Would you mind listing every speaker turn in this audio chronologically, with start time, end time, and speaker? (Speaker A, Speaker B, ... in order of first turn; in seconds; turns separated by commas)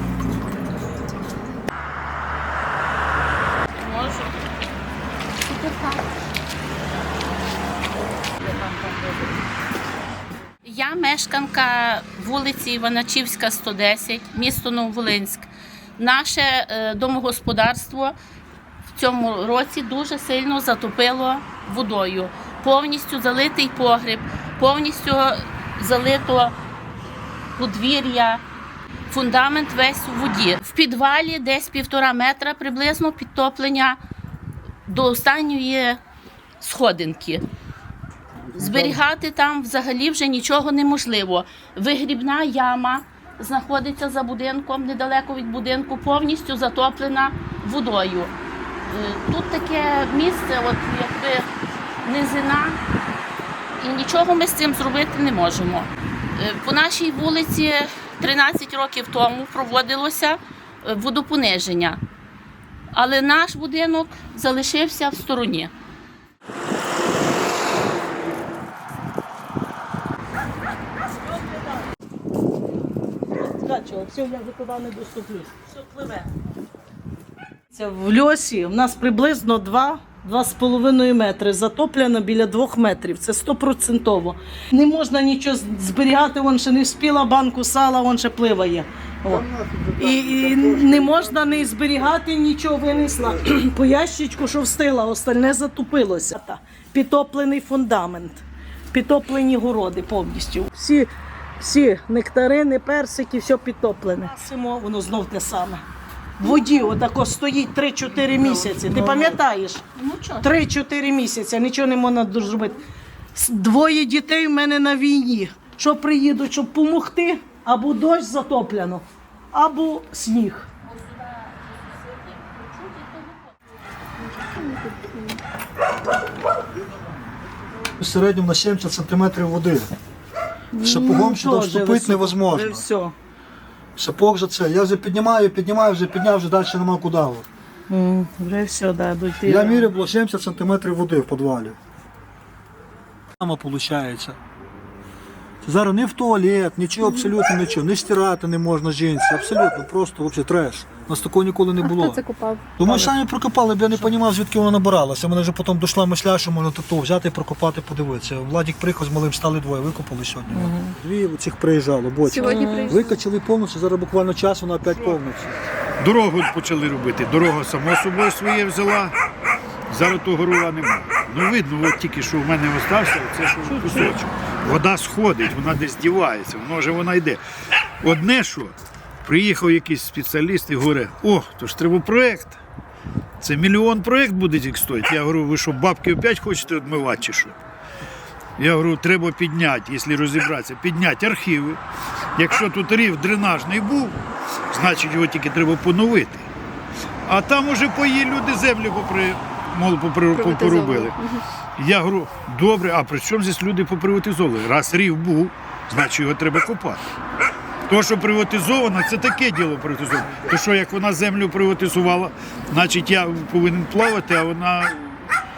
Speaker A: 3.8-4.4, Speaker A: 5.5-6.0, Speaker A: 8.6-9.2, Speaker A: 10.6-18.1, Speaker A: 18.9-26.5, Speaker A: 27.6-28.4, Speaker A: 29.1-34.0, Speaker A: 34.9-36.0, Speaker A: 36.6-37.4, Speaker B: 38.5-38.9, Speaker A: 38.6-48.3, Speaker A: 48.9-51.5, Speaker A: 52.0-52.8, Speaker A: 53.8-62.0, Speaker A: 62.9-65.7, Speaker C: 73.4-76.2, Speaker C: 77.7-89.4, Speaker B: 89.2-91.6, Speaker C: 90.0-105.8, Speaker C: 106.4-109.8, Speaker A: 109.9-110.5, Speaker C: 110.4-112.8, Speaker C: 113.3-120.7, Speaker A: 120.8-123.5, Speaker D: 124.3-125.4, Speaker B: 128.0-129.9, Speaker C: 130.7-133.1, Speaker B: 130.8-132.8, Speaker B: 133.9-137.5, Speaker C: 137.9-139.9, Speaker B: 139.4-141.8, Speaker B: 143.4-144.3, Speaker B: 145.6-152.2, Speaker D: 151.8-153.1, Speaker B: 152.8-165.6, Speaker C: 160.5-160.9, Speaker D: 162.2-163.2, Speaker C: 162.4-163.0, Speaker E: 164.8-165.2, Speaker E: 166.0-169.1, Speaker E: 169.9-177.4, Speaker C: 173.6-174.2, Speaker E: 178.0-182.6, Speaker E: 183.4-187.6, Speaker E: 188.6-191.8, Speaker E: 192.4-194.2, Speaker E: 194.7-196.5, Speaker E: 197.3-201.2, Speaker D: 200.3-201.4, Speaker E: 201.8-207.0, Speaker E: 207.9-215.2